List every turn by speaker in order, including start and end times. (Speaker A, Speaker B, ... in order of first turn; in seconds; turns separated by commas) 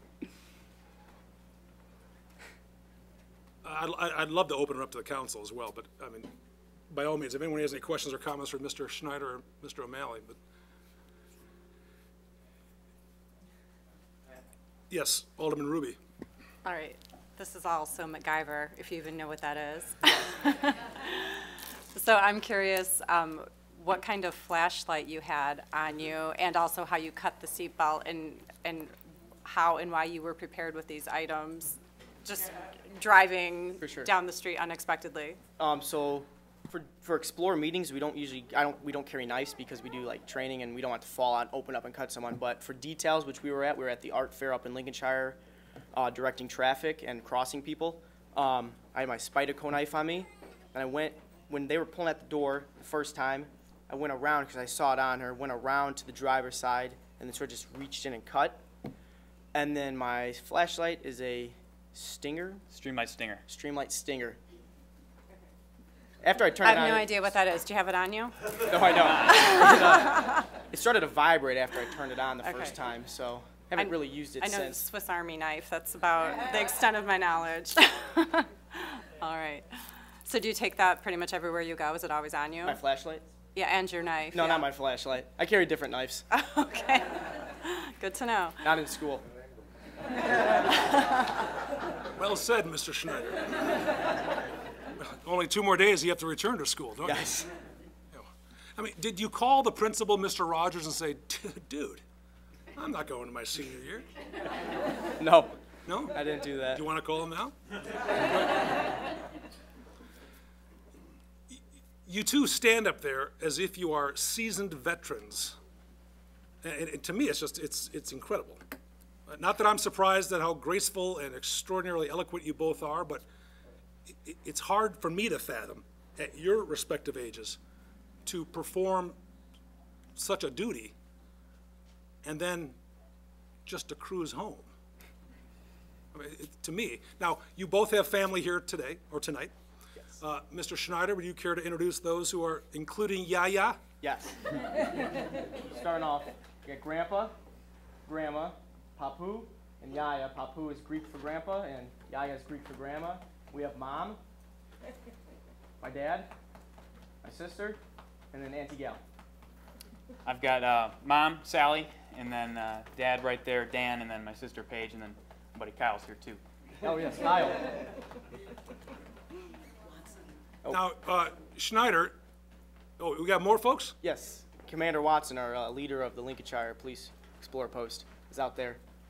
Speaker A: 3.6-6.3, Speaker A: 6.9-10.4, Speaker A: 14.9-16.0, Speaker B: 16.6-28.9, Speaker B: 29.4-35.4, Speaker C: 33.8-34.1, Speaker C: 35.6-45.4, Speaker C: 46.0-58.6, Speaker C: 59.5-62.6, Speaker D: 62.7-63.4, Speaker C: 63.5-64.4, Speaker C: 66.2-67.2, Speaker B: 66.6-69.9, Speaker C: 68.5-74.9, Speaker B: 72.4-72.8, Speaker B: 73.8-79.7, Speaker B: 80.2-82.8, Speaker C: 82.6-83.2, Speaker B: 83.5-84.7, Speaker C: 84.3-86.3, Speaker B: 86.3-88.6, Speaker C: 88.6-89.2, Speaker B: 90.7-91.2, Speaker A: 92.2-93.8, Speaker A: 95.0-97.3, Speaker C: 97.0-97.5, Speaker A: 98.1-102.0, Speaker A: 102.8-104.1, Speaker C: 105.2-106.8, Speaker A: 105.9-106.2, Speaker A: 106.7-107.5, Speaker A: 111.5-115.6, Speaker A: 116.6-118.6, Speaker A: 119.3-123.3, Speaker A: 124.1-127.6, Speaker A: 128.2-129.2, Speaker A: 130.2-130.9, Speaker A: 132.2-132.8, Speaker A: 133.7-134.7, Speaker A: 136.1-139.5, Speaker A: 140.2-143.8, Speaker C: 144.0-144.6, Speaker C: 145.6-147.3, Speaker C: 148.1-154.2, Speaker C: 155.8-156.3, Speaker C: 157.2-157.8, Speaker C: 158.3-159.0, Speaker D: 160.2-166.4, Speaker C: 166.8-167.7, Speaker A: 170.7-172.2, Speaker A: 173.0-173.9, Speaker C: 174.0-178.8